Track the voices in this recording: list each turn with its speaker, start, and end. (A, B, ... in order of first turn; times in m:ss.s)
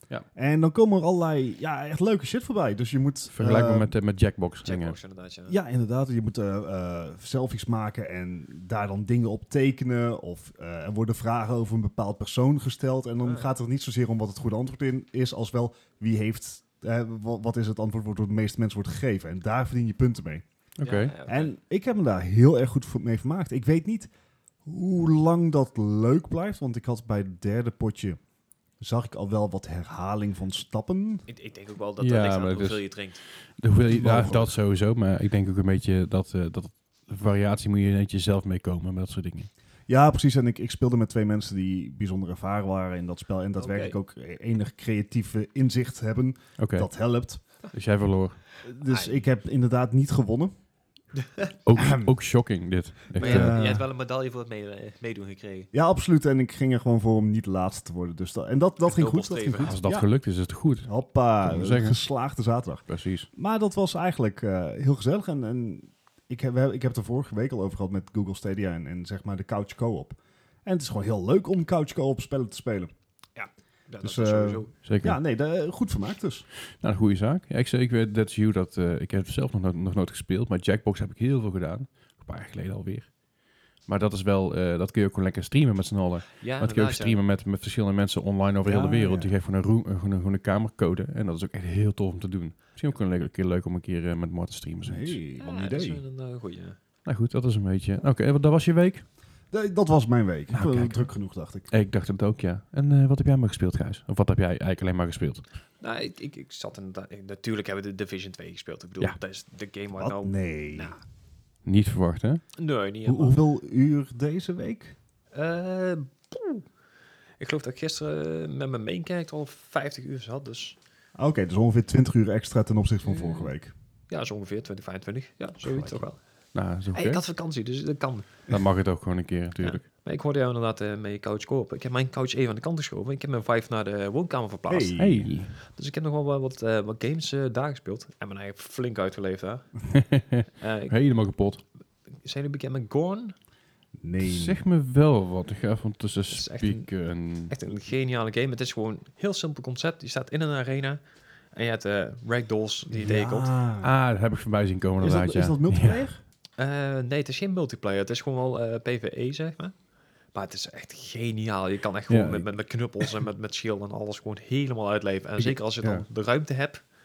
0:00.4-0:03.9 A
0:03.3-0:05.0 B
0:04.6-0:05.6 C
0:05.5-0:20.4 A
0:13.2-0:13.5 C
0:20.8-0:21.1 B
0:20.8-0:21.5 C
0:21.3-0:24.1 A
0:24.6-0:28.2 A
0:28.8-0:31.3 A
0:31.3-0:33.2 C
0:32.0-0:39.5 B
0:33.9-0:34.5 A
0:39.9-0:47.4 A
0:43.6-0:44.0 C
0:46.6-0:46.9 B
0:47.7-0:48.4 B
0:48.6-0:50.5 A
0:48.8-0:49.2 C
0:51.2-0:51.5 C
0:51.6-0:53.6 B
0:51.8-0:52.1 A
0:53.2-0:53.9 A
0:53.2-0:55.7 C
0:55.7-1:00.1 A
0:58.8-0:59.8 C
0:59.6-1:02.0 B
1:00.8-1:12.9 A
1:02.9-1:03.3 B
1:13.4-1:14.8 C
1:14.0-1:16.5 A
1:14.8-1:15.2 B
1:16.6-1:23.1 B
1:23.8-1:35.2 B
1:26.4-1:27.2 C
1:28.6-1:29.4 A
1:34.8-1:36.0 A
1:35.4-1:36.8 C
1:37.0-1:39.1 B
1:39.5-1:41.7 A
1:40.5-1:41.1 B
1:41.7-1:45.4 B
1:45.8-1:51.0 C
1:50.0-1:50.9 A
1:51.6-1:52.4 B
1:52.6-1:53.4 C
1:53.0-1:55.0 A
1:55.3-1:56.6 C
1:57.4-2:00.8 C
2:01.2-2:03.7 A
2:03.1-2:03.5 C
2:04.1-2:06.2 C
2:05.6-2:06.0 A
2:06.5-2:07.2 B
2:06.9-2:08.4 C
2:08.5-2:09.8 B
2:09.6-2:15.0 C
2:14.7-2:15.3 A
2:15.0-2:15.6 B
2:15.6-2:19.8 C
2:19.9-2:21.6 B
2:20.5-2:21.0 C
2:22.2-2:23.3 C
2:24.0-2:24.6 A
2:24.2-2:27.6 B
2:26.3-2:31.0 C
2:31.5-2:33.5 C
2:32.9-2:33.9 A
2:33.8-2:36.0 B
2:35.0-2:36.2 A
2:36.6-2:39.8 C
2:40.3-2:46.8 C
2:42.1-2:42.5 B